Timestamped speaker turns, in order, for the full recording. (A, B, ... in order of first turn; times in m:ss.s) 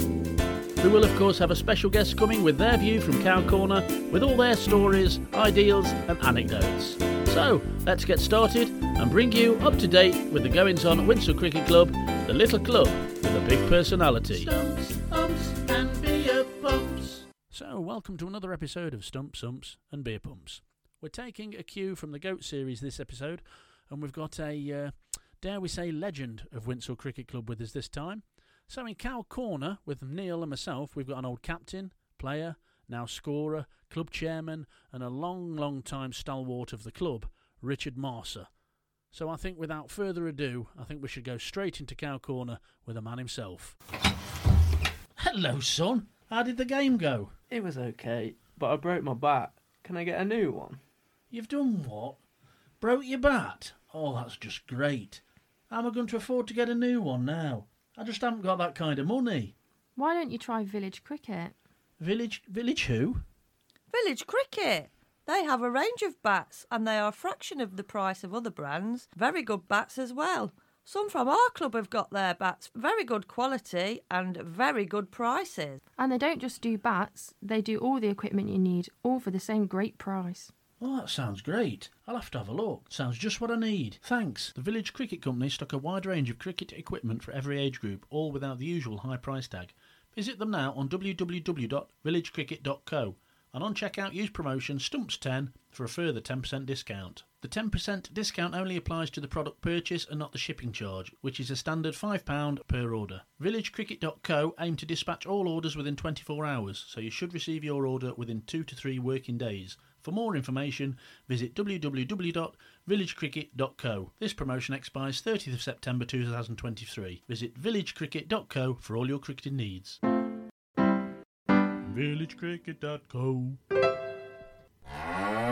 0:00.8-0:38.5 A
0:39.1-0:43.8 A
0:45.2-0:47.4 A
0:47.5-0:50.8 B
0:51.3-0:52.2 A
0:52.8-0:59.5 A
1:00.0-1:01.6 C
1:02.0-1:03.2 A
1:03.9-1:15.8 D
1:16.0-1:20.5 C
1:20.8-2:00.0 A
2:01.9-2:03.6 A